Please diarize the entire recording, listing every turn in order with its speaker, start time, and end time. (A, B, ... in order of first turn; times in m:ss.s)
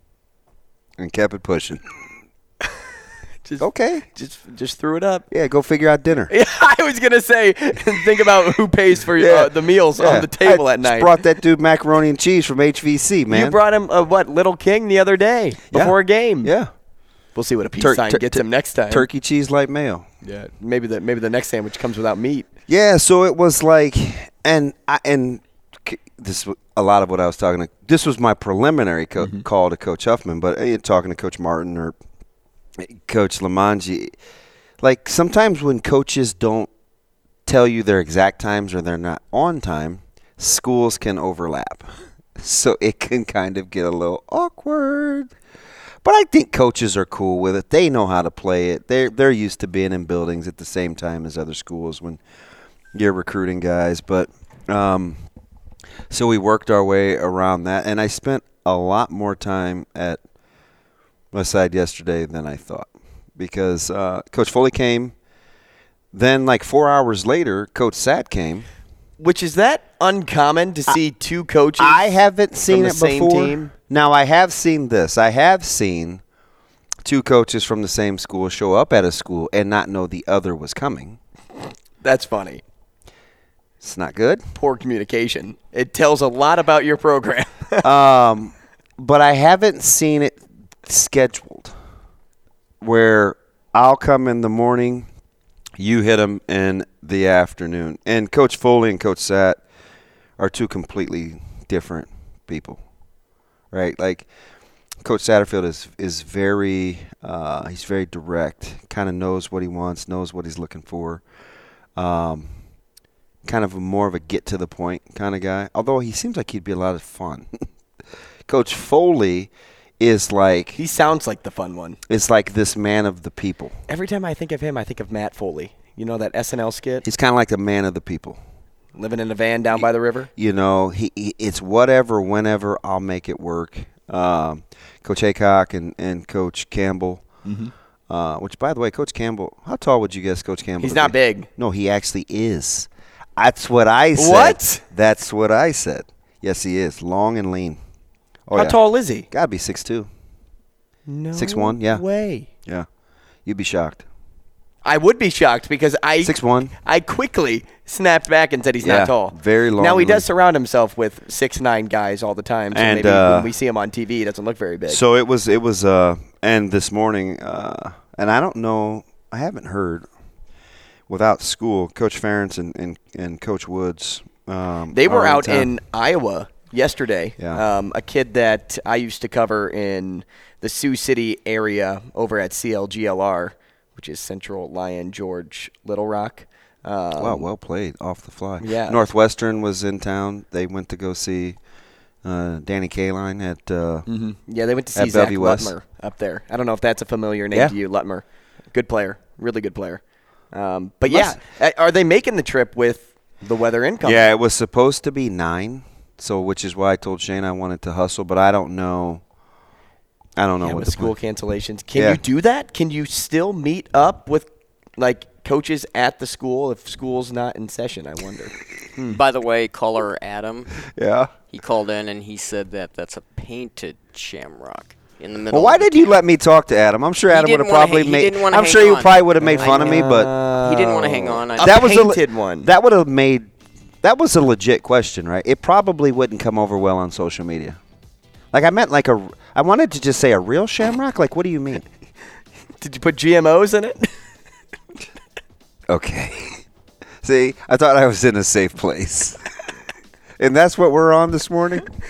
0:01.0-0:01.8 A
0:03.4-0:05.3 B
0:03.6-0:04.1 A
0:05.3-0:06.3 A
0:06.3-0:11.2 B
0:09.2-0:13.6 A
0:13.3-0:16.5 B
0:15.7-0:16.7 A
0:17.3-0:19.1 B
0:17.8-0:20.0 A
0:20.2-0:22.5 B
0:22.7-0:31.9 A
0:29.2-0:29.4 B
0:32.8-0:34.2 A
0:34.8-0:36.7 A
0:37.4-0:41.9 A
0:42.4-0:45.3 A
0:46.0-0:52.2 A
0:52.9-0:55.2 A
0:56.1-1:00.2 A
1:01.3-1:05.1 A
1:06.1-1:08.6 A
1:09.2-1:12.1 B
1:11.8-1:16.2 A
1:12.7-1:13.7 B
1:17.0-1:21.2 A
1:22.0-1:22.6 B
1:23.8-1:24.4 A
1:24.5-1:27.8 B
1:27.8-1:31.7 A
1:32.8-1:35.1 A
1:35.8-1:39.6 A
1:40.4-1:42.8 A
1:43.7-1:44.3 A
1:45.0-1:51.2 A
1:52.0-1:52.5 A
1:53.4-1:57.5 A
1:58.5-2:00.8 A
2:00.8-2:02.0 B
2:02.1-2:03.8 A
2:03.9-2:07.0 B
2:07.0-2:08.4 A
2:09.0-2:10.3 B
2:10.4-2:17.2 A
2:17.4-2:17.7 B
2:18.1-2:27.8 A
2:20.8-2:21.5 B
2:24.2-2:24.8 B
2:28.5-2:28.8 A
2:28.5-2:29.3 B
2:29.3-2:30.1 A
2:31.1-2:32.5 B
2:31.3-2:32.0 A
2:33.4-2:34.0 A
2:34.8-2:45.0 B
2:36.2-2:36.7 A
2:38.8-2:40.2 A
2:42.7-2:43.5 A
2:44.9-2:50.0 A
2:51.1-2:55.7 A
2:54.9-3:07.5 B
3:07.2-3:11.6 A
3:08.6-3:09.0 B
3:12.2-3:14.0 A
3:14.1-3:20.0 B
3:14.9-3:15.7 A
3:20.5-3:24.3 B
3:21.1-3:21.4 A
3:24.0-3:29.2 A
3:30.4-3:31.2 A
3:30.6-3:39.2 B
3:31.9-3:32.2 A
3:39.1-3:40.8 C
3:40.9-3:41.3 A
3:41.5-3:46.2 C
3:45.5-3:50.3 A
3:47.3-3:50.0 C
3:49.4-3:52.7 B
3:50.6-3:51.9 C
3:51.6-3:53.5 A
3:54.0-3:57.8 A
3:58.5-4:01.8 A
4:02.8-4:04.1 B
4:05.9-4:06.6 A
4:07.2-4:09.4 A
4:10.4-4:11.9 A